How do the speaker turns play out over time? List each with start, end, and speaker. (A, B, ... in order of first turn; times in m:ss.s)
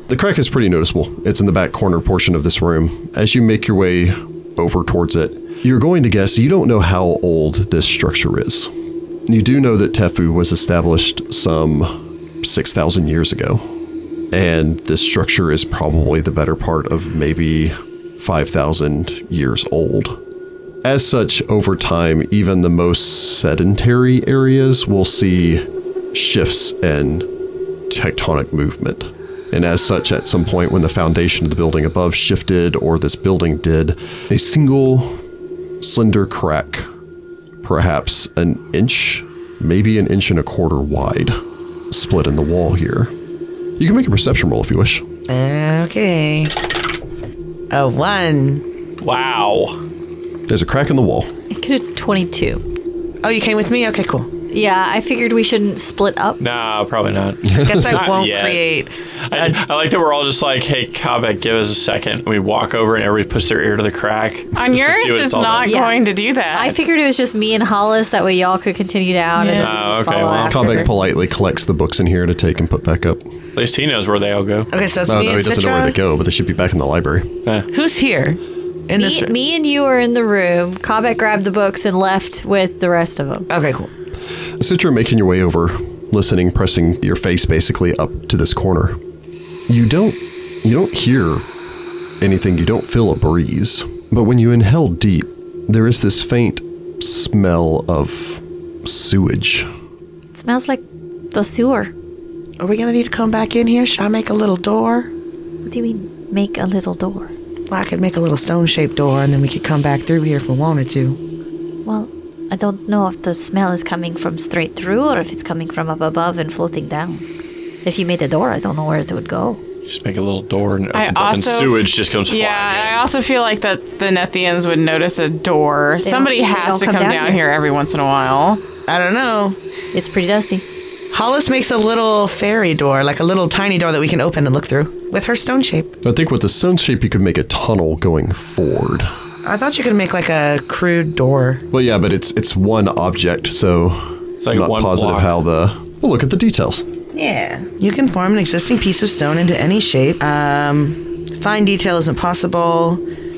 0:00.1-0:08.7 A
0:09.3-0:13.7 A
0:14.3-0:20.2 A
0:20.8-0:27.3 A
0:27.9-0:35.2 A
0:35.8-0:36.9 A
0:37.6-0:41.4 A
0:41.9-0:43.1 A
0:43.8-0:45.0 A
0:45.3-0:46.7 B
0:47.7-0:48.6 B
0:49.0-0:49.8 C
0:50.5-0:51.3 A
0:51.5-0:52.6 D
0:53.2-0:54.3 B
0:54.5-0:56.4 D
0:56.4-0:58.7 C
0:57.5-0:58.0 A
0:57.6-0:59.6 B
0:59.3-1:05.7 C
1:04.6-1:06.8 E
1:05.6-1:06.0 D
1:06.5-1:10.9 D
1:09.4-1:09.8 E
1:09.6-1:10.9 C
1:10.5-1:13.2 A
1:13.6-1:14.7 C
1:14.7-1:16.0 B
1:15.1-1:17.3 A
1:17.7-1:19.3 B
1:19.0-1:23.5 D
1:23.5-1:23.9 B
1:24.6-1:29.0 A
1:29.7-1:31.4 A
1:32.2-1:39.7 A
1:40.3-1:41.9 D
1:42.6-1:45.1 B
1:45.6-1:47.3 D
1:47.7-1:51.2 B
1:51.8-1:57.2 D
1:57.8-1:59.6 D
1:59.9-2:03.1 C
2:00.9-2:08.6 E
2:06.0-2:07.4 D
2:08.9-2:09.6 B
2:09.9-2:10.6 D
2:11.1-2:16.0 B
2:16.0-2:19.1 A
2:19.4-2:21.6 B
2:21.7-2:26.8 A
2:24.4-2:25.4 C
2:27.1-2:33.0 B